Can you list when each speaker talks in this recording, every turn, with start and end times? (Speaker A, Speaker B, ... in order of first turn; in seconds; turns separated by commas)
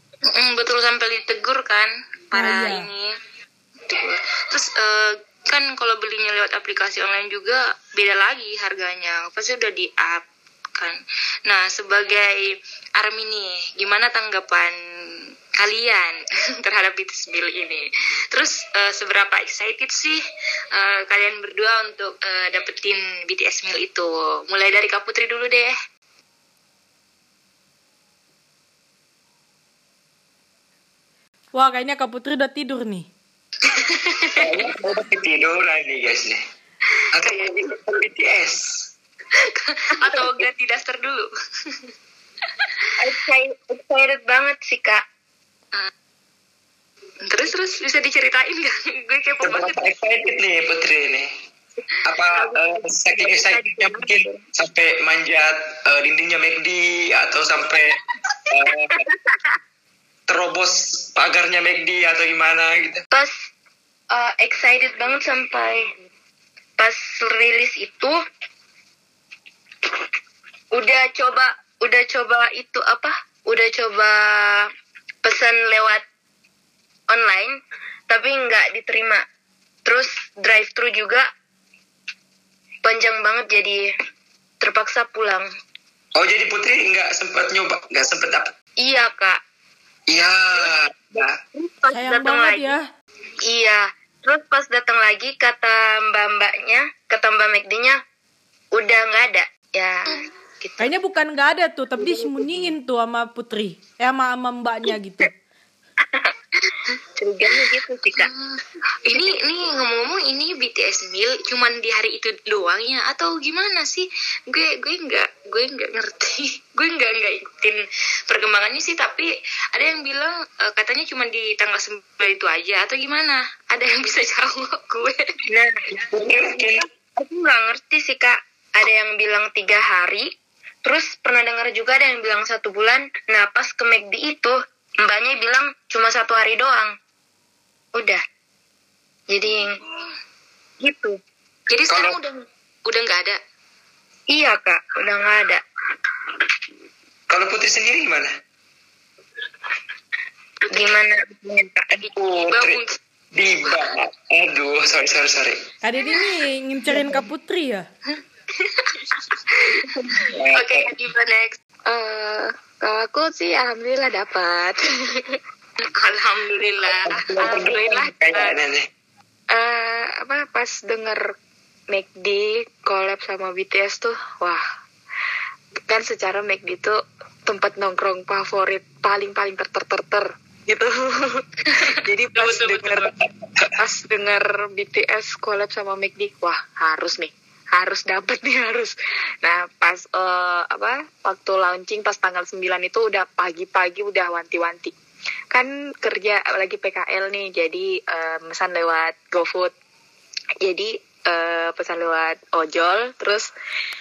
Speaker A: 0.2-3.1, Speaker B: 2.3-2.9, Speaker A: 3.9-10.2, Speaker A: 10.8-14.7, Speaker A: 15.6-20.2, Speaker A: 20.7-25.8, Speaker B: 31.5-33.1, Speaker A: 33.7-34.7, Speaker C: 34.4-36.4, Speaker C: 37.1-38.9, Speaker A: 37.2-37.7, Speaker A: 39.3-41.8, Speaker D: 43.0-45.0, Speaker A: 47.2-49.8, Speaker C: 49.4-51.3, Speaker C: 52.0-58.0, Speaker C: 58.5-59.0, Speaker C: 60.3-63.0, Speaker D: 63.1-63.5, Speaker D: 64.1-65.9, Speaker D: 66.8-68.2, Speaker D: 70.7-74.7, Speaker D: 75.2-76.0, Speaker D: 77.1-79.2, Speaker D: 79.8-81.3, Speaker D: 82.8-83.9, Speaker D: 84.6-85.5, Speaker C: 86.2-88.5, Speaker D: 88.8-89.4, Speaker C: 90.1-91.4, Speaker D: 91.5-92.8, Speaker B: 91.9-92.8, Speaker D: 93.4-98.0, Speaker D: 98.7-100.9, Speaker B: 100.8-105.3, Speaker E: 102.2-102.5, Speaker E: 107.2-108.3, Speaker A: 108.2-125.3, Speaker D: 125.5-125.8, Speaker C: 125.9-126.8, Speaker D: 127.2-130.3, Speaker D: 130.8-136.9, Speaker D: 137.9-138.2, Speaker D: 139.3-139.8, Speaker D: 140.8-141.2, Speaker A: 141.7-143.4, Speaker C: 141.9-142.2, Speaker D: 144.3-145.6, Speaker C: 147.3-148.3, Speaker A: 150.7-151.0, Speaker D: 150.7-152.1, Speaker C: 152.1-152.8, Speaker A: 152.5-152.9, Speaker C: 153.3-155.6, Speaker B: 155.8-157.9, Speaker A: 158.6-161.6, Speaker C: 160.3-160.9, Speaker E: 161.8-165.4, Speaker A: 165.9-168.6, Speaker C: 167.1-168.9, Speaker E: 169.5-171.3, Speaker E: 171.9-174.6, Speaker E: 175.9-183.1, Speaker A: 181.8-183.1, Speaker E: 183.8-194.9, Speaker E: 195.5-199.7, Speaker E: 200.6-203.5